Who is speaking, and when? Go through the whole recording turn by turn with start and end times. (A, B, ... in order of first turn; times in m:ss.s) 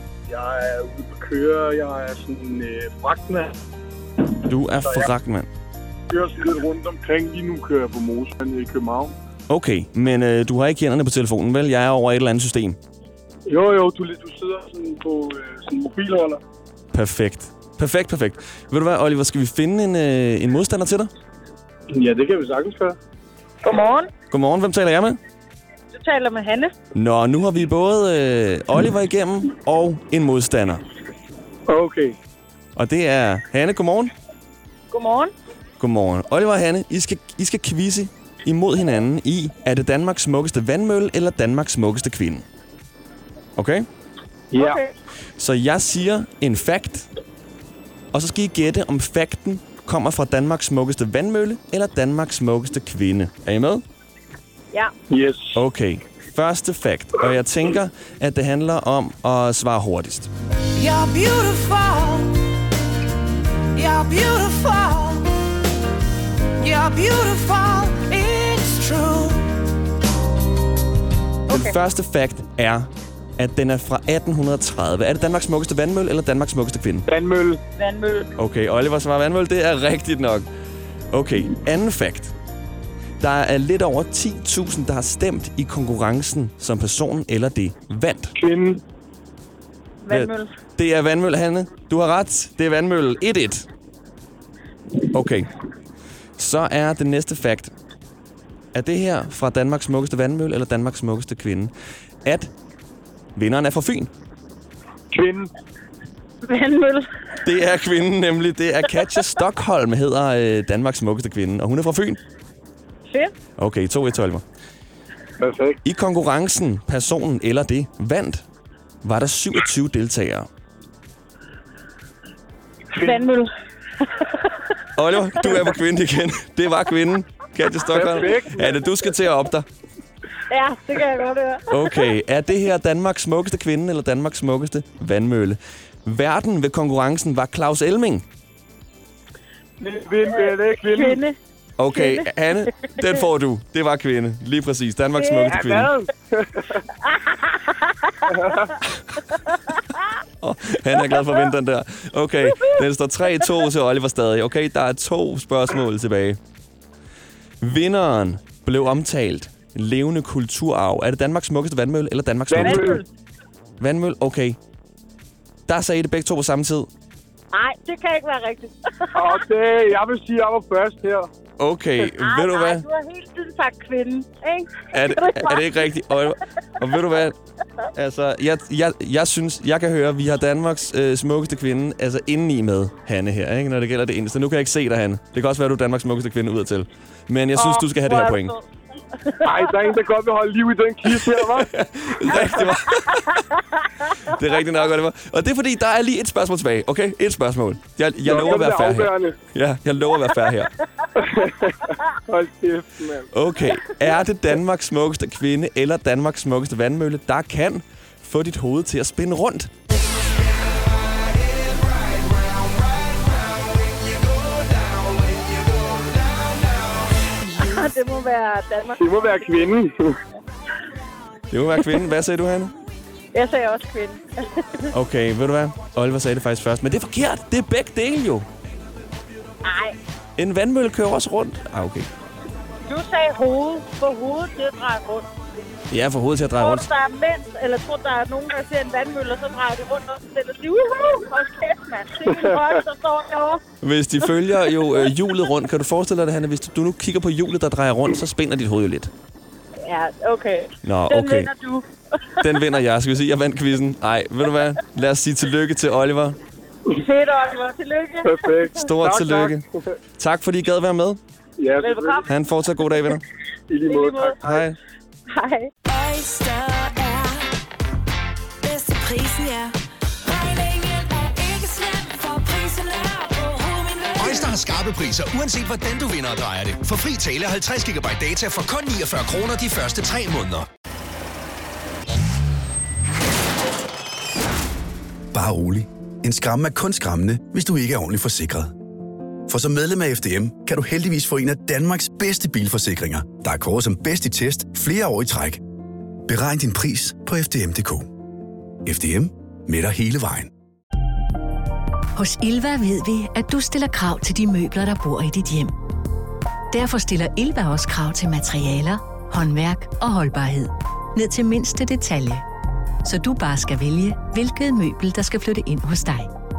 0:00.3-0:03.6 A
0:04.4-0:05.5 B
0:06.1-0:09.2 A
0:09.5-0:12.8 B
0:13.5-0:16.4 A
0:16.9-0:21.1 B
0:21.9-0:23.0 A
0:23.6-0:24.1 C
0:24.3-0:25.2 B
0:25.9-0:26.7 C
0:27.0-0:30.8 B
0:31.7-0:32.2 A
0:32.8-0:34.1 B
0:34.9-0:35.3 C
0:35.8-0:42.5 B
0:43.6-0:43.9 B
0:44.5-0:44.8 A
0:44.5-0:44.9 C
0:45.4-0:47.1 B
0:48.1-0:53.8 B
0:55.1-0:55.6 A
0:55.6-1:00.3 B
1:00.8-1:02.4 C
1:03.7-1:05.4 C
1:06.6-1:09.6 C
1:11.5-1:11.8 C
1:11.5-1:17.1 B
1:17.1-1:17.6 A
1:17.8-1:18.3 C
1:18.4-1:20.5 B
1:21.1-1:22.3 B
1:23.2-1:28.4 B
1:28.4-1:28.8 A
1:30.0-1:30.5 C
1:30.1-1:33.7 B
1:35.1-1:35.5 B
1:36.4-1:37.7 B
1:38.8-1:41.7 B
1:42.2-1:42.5 B
1:43.4-1:44.1 B
1:45.1-1:45.5 A
1:46.4-1:47.1 C
1:47.4-1:52.2 B
1:53.1-1:53.3 C
1:53.6-1:54.4 B
1:55.4-1:55.8 A
1:55.8-1:58.4 B
1:59.0-2:00.5 B
2:02.9-2:03.3 A
2:03.0-2:03.5 C
2:05.0-2:09.7 B
2:07.9-2:09.0 A
2:10.5-2:12.0 C
2:11.7-2:18.2 B
2:19.8-2:21.3 A
2:20.2-2:21.4 C
2:21.8-2:25.9 B
2:21.9-2:22.3 C
2:25.2-2:25.6 C
2:25.5-2:26.8 A
2:27.0-2:28.5 C
2:28.3-2:28.7 A
2:29.5-2:30.0 C
2:30.4-2:36.4 B
2:37.6-2:43.0 B
2:42.5-2:43.0 A
2:42.6-2:43.0 C
2:43.8-2:44.6 B
2:45.7-2:46.9 B
2:47.5-2:49.5 C
2:49.2-2:51.3 A
2:51.6-2:52.9 B
2:52.0-2:55.9 C
2:54.9-2:57.4 B
2:57.9-3:08.6 B
3:08.0-3:08.6 C
3:09.2-3:09.9 C
3:09.4-3:11.7 A
3:11.0-3:13.4 B
3:12.3-3:12.7 A
3:14.0-3:20.7 B
3:18.2-3:19.4 A
3:21.2-3:23.3 A
3:23.3-3:29.7 B
3:37.6-3:39.5 C
3:39.0-3:40.2 A
3:41.5-3:42.7 B
3:43.3-3:44.8 C
3:44.9-3:48.5 B
3:49.6-3:50.0 C
3:50.4-3:52.1 B
3:52.9-3:55.3 C
3:55.9-3:56.9 B
3:56.6-4:03.6 C
4:02.3-4:02.6 A
4:03.8-4:09.1 B
4:09.8-4:12.6 C
4:10.8-4:11.5 B
4:12.4-4:16.4 B
4:16.9-4:18.8 C
4:18.2-4:20.0 A
4:18.8-4:19.6 B
4:20.2-4:21.2 B
4:21.6-4:22.2 A
4:21.8-4:22.3 C
4:22.3-4:23.2 B
4:23.7-4:24.6 A
4:23.9-4:24.4 C
4:24.4-4:24.8 B
4:25.3-4:25.7 C
4:25.9-4:27.5 D
4:28.6-4:34.6 D
4:34.2-4:40.7 E
4:45.3-4:48.7 F
4:49.5-4:55.6 F
4:56.3-4:58.1 F
4:58.8-5:00.5 F
5:02.2-5:05.8 G
5:06.7-5:12.4 G
5:13.0-5:16.3 G